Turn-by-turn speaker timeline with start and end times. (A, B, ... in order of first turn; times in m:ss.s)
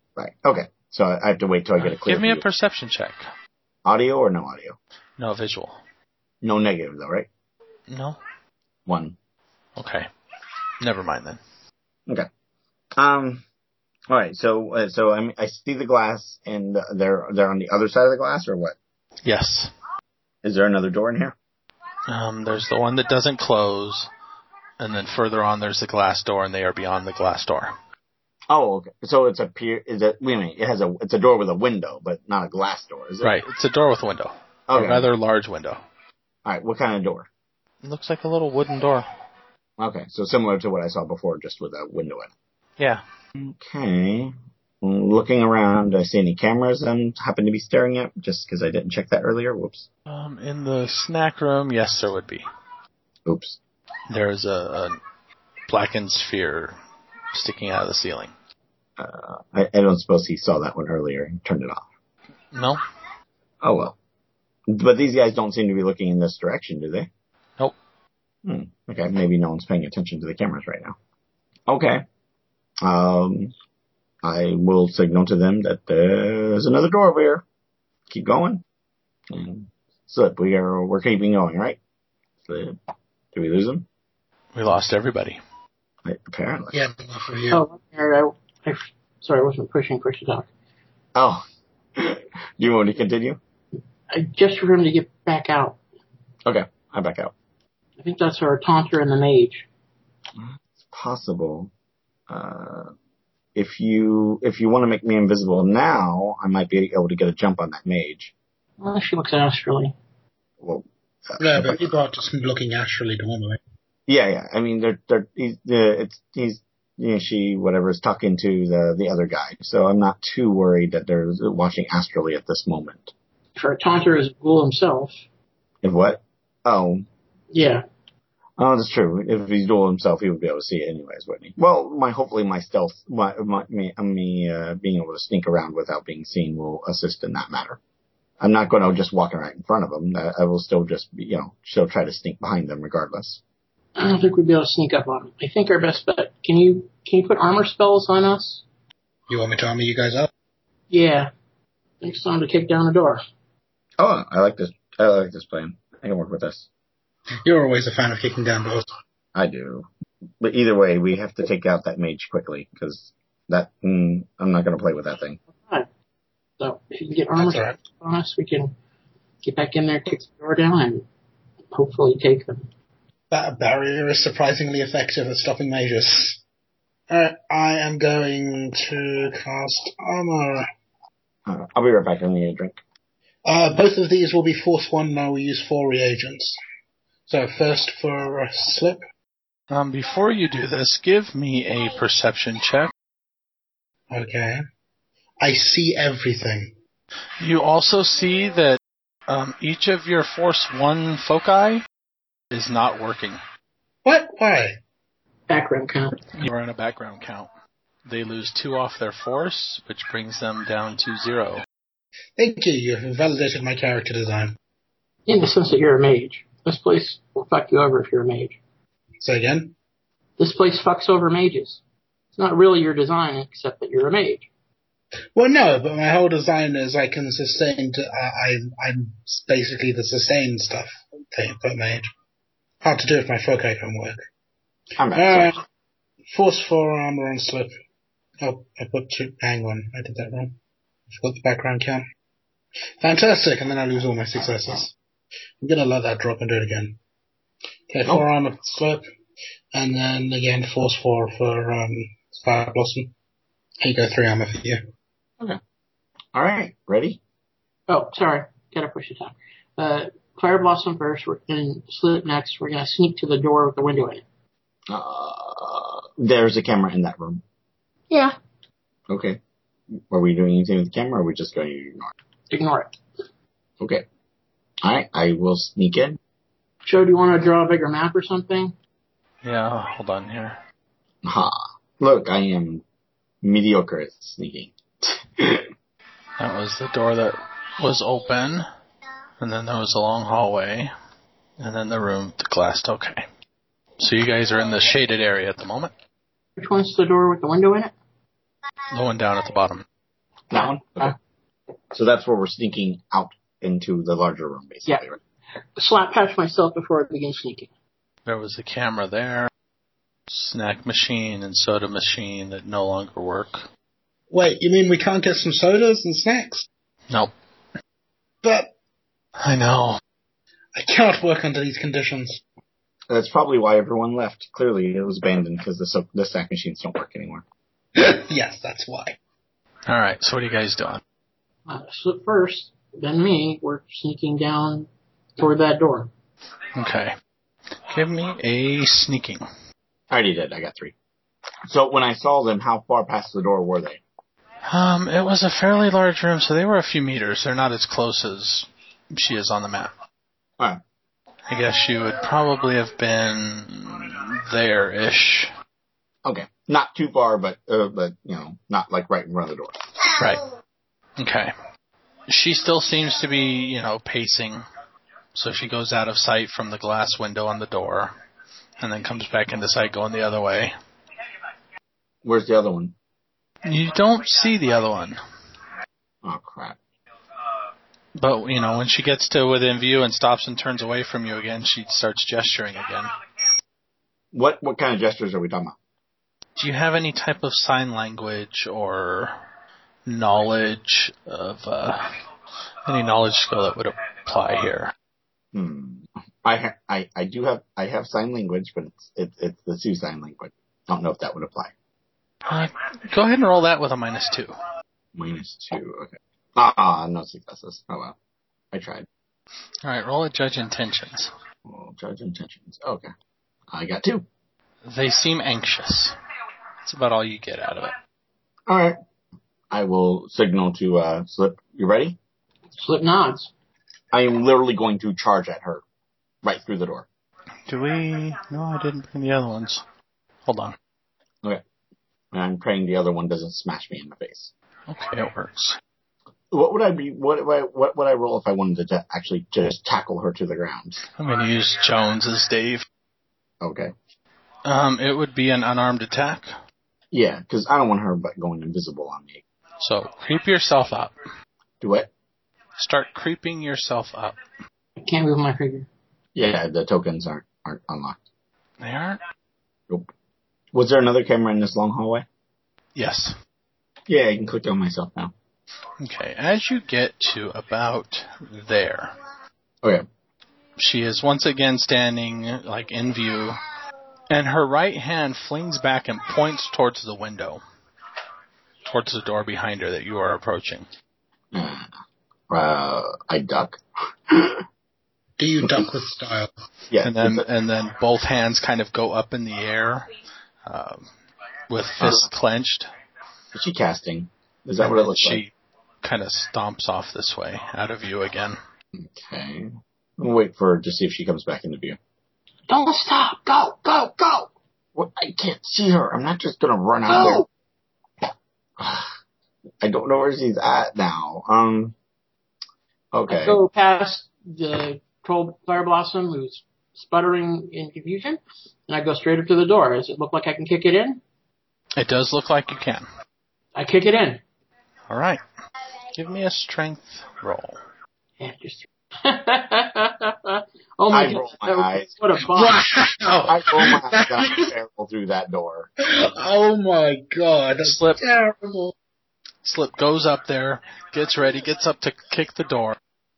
0:00.2-0:02.4 A
0:01.8-0:03.3 B
0:03.8-0:04.8 A
0:05.2-0:05.8 B
0:06.4-0:07.3 A
0:07.9-0:08.2 B
0:08.9-0:09.2 A
0:09.8-0:10.1 B
0:10.8-0:11.4 B
0:13.0-0:13.4 A
0:14.1-0:18.8 A
0:19.2-0:19.7 B
0:20.4-0:21.4 A
0:22.1-0:24.1 B
0:24.8-0:27.7 B
0:28.5-0:33.4 A
0:33.2-0:35.8 B
0:34.7-0:35.1 A
0:36.4-0:37.3 A
0:37.8-0:39.1 B
0:39.8-0:42.3 A
0:43.4-0:49.9 A
0:50.1-0:52.5 B
0:53.3-0:53.6 A
0:54.1-0:55.0 B
0:55.7-0:56.8 B
0:57.3-0:58.3 B
0:59.0-1:01.8 A
1:02.5-1:02.8 B
1:03.6-1:04.0 A
1:04.7-1:07.1 A
1:08.4-1:11.0 A
1:11.7-1:12.0 A
1:12.8-1:13.5 A
1:14.2-1:17.4 A
1:18.1-1:18.6 A
1:19.3-1:21.8 A
1:22.5-1:22.8 A
1:23.3-1:23.9 A
1:24.5-1:25.4 B
1:26.0-1:26.8 A
1:26.7-1:27.6 C
1:27.5-1:30.5 D
1:31.2-1:31.4 A
1:32.0-1:33.4 A
1:34.1-1:35.8 D
1:36.4-1:37.3 A
1:38.0-1:39.7 D
1:40.4-1:41.7 A
1:42.3-1:42.9 A
1:43.6-1:48.3 A
1:48.8-1:50.0 D
1:50.6-1:51.9 A
1:51.4-1:53.6 C
1:54.1-2:03.1 A
2:03.6-2:05.2 D
2:05.8-2:07.1 A
2:07.5-2:07.8 D
2:08.6-2:17.8 A
2:18.4-2:23.4 A
2:24.0-2:28.6 D
2:29.3-2:30.3 C
2:30.9-2:31.3 D
2:32.0-2:33.2 D
2:34.0-2:36.7 A
2:37.4-2:38.9 C
2:39.4-2:39.9 A
2:40.4-2:45.4 A
2:45.6-2:45.9 D
2:46.6-2:48.7 D
2:47.4-2:47.8 C
2:49.4-2:51.1 D
2:51.7-2:52.7 D
2:53.3-2:56.4 C
2:57.1-3:00.7 C
3:01.5-3:02.8 A
3:03.5-3:06.6 C
3:07.3-3:09.0 C
3:09.7-3:12.9 B
3:14.1-3:14.6 C
3:15.4-3:16.7 C
3:17.4-3:21.8 B
3:22.5-3:23.4 B
3:24.0-3:24.8 C
3:25.5-3:26.2 D
3:26.4-3:27.5 B
3:28.1-3:31.6 B
3:32.4-3:34.6 C
3:35.3-3:38.6 D
3:39.2-3:39.7 C
3:40.4-3:41.8 D
3:42.4-3:44.5 D
3:45.4-3:52.1 C
3:52.8-3:54.2 C
3:55.0-3:55.6 A
3:55.2-3:55.6 C
3:56.3-3:57.8 C
3:58.4-4:00.6 C
4:01.1-4:02.0 C
4:03.0-4:05.0 C
4:05.6-4:07.0 C
4:07.9-4:09.0 C
4:09.7-4:13.1 C
4:13.8-4:14.8 C
4:16.3-4:17.2 A
4:17.9-4:24.2 D
4:24.9-4:27.4 A
4:28.1-4:28.4 D
4:29.1-4:29.4 A
4:30.0-4:32.1 A
4:32.5-4:33.0 D
4:34.8-4:36.2 A
4:36.8-4:38.7 D
4:39.4-4:40.6 B
4:41.2-4:42.8 A
4:43.4-4:45.7 A
4:46.4-4:48.7 B
4:49.4-4:50.9 B
4:51.6-4:53.2 B
4:54.0-4:55.9 B
4:56.6-4:57.9 D
4:58.9-4:59.8 B
5:00.5-5:01.1 A
5:00.5-5:01.1 D
5:01.9-5:05.2 A
5:05.8-5:07.7 D
5:08.3-5:09.5 B
5:10.3-5:13.7 B
5:14.3-5:16.7 C
5:18.4-5:18.7 C
5:19.4-5:20.0 B
5:20.8-5:22.4 C
5:23.1-5:27.4 A
5:28.0-5:29.2 C
5:29.9-5:31.0 B
5:31.7-5:36.1 D
5:36.8-5:37.1 B
5:37.9-5:39.4 B
5:40.1-5:40.9 A
5:41.7-5:44.0 A
5:44.6-5:49.9 B
5:51.5-5:55.5 B
5:56.2-5:59.8 A
6:00.2-6:00.4 B
6:01.2-6:01.5 B
6:02.3-6:04.6 B
6:05.4-6:08.1 B
6:08.8-6:10.7 B
6:12.2-6:12.9 A
6:13.6-6:15.2 B
6:16.2-6:16.8 A
6:18.2-6:23.1 B
6:24.3-6:25.8 A
6:26.6-6:29.4 B
6:30.1-6:32.1 B
6:32.9-6:34.9 B
6:35.5-6:41.7 A
6:42.5-6:44.6 B
6:45.2-6:48.2 A
6:48.7-6:49.1 A
6:49.8-6:51.3 B
6:51.7-6:53.1 A
6:53.7-6:54.3 A
6:54.8-6:56.2 B
6:56.8-6:57.9 B
6:58.7-6:59.0 A
6:59.7-7:02.2 A
7:02.8-7:03.5 D
7:04.1-7:05.8 A
7:06.4-7:07.1 A
7:07.7-7:09.8 B
7:10.5-7:10.8 B
7:12.3-7:14.5 A
7:14.9-7:15.8 B
7:16.5-7:21.0 A
7:21.2-7:22.9 B
7:23.6-7:23.9 A
7:24.6-7:26.5 B
7:27.1-7:29.4 A
7:29.8-7:31.1 B
7:31.8-7:32.1 A
7:32.8-7:34.4 B
7:35.0-7:35.9 D
7:36.4-7:38.2 A
7:38.8-7:39.2 B
7:40.7-7:42.2 A
7:43.0-7:43.4 B
7:44.1-7:45.3 A
7:46.0-7:49.1 B
7:50.8-7:53.6 B
7:54.3-7:57.6 B
7:58.9-8:00.9 B
8:01.5-8:01.9 A
8:02.5-8:04.6 A
8:05.4-8:06.5 C
8:05.6-8:05.9 A
8:06.9-8:07.5 A
8:07.0-8:10.1 B
8:10.7-8:11.1 B
8:11.7-8:12.9 B
8:13.5-8:15.4 A
8:14.8-8:15.5 B
8:16.0-8:18.6 B
8:19.0-8:22.0 A
8:22.7-8:24.5 D
8:25.0-8:27.4 A
8:27.1-8:27.5 D
8:28.8-8:29.2 A
8:29.8-8:32.0 A
8:33.1-8:33.6 A
8:33.3-8:41.2 D
8:42.0-8:43.1 B
8:43.8-8:44.4 D
8:45.1-8:45.4 B
8:46.2-8:47.8 B
8:48.4-8:52.9 D
8:51.1-8:52.1 A
8:52.5-8:54.7 C
8:53.5-8:55.9 A
8:56.0-8:58.9 C
8:57.8-8:58.2 B
8:59.6-9:03.0 B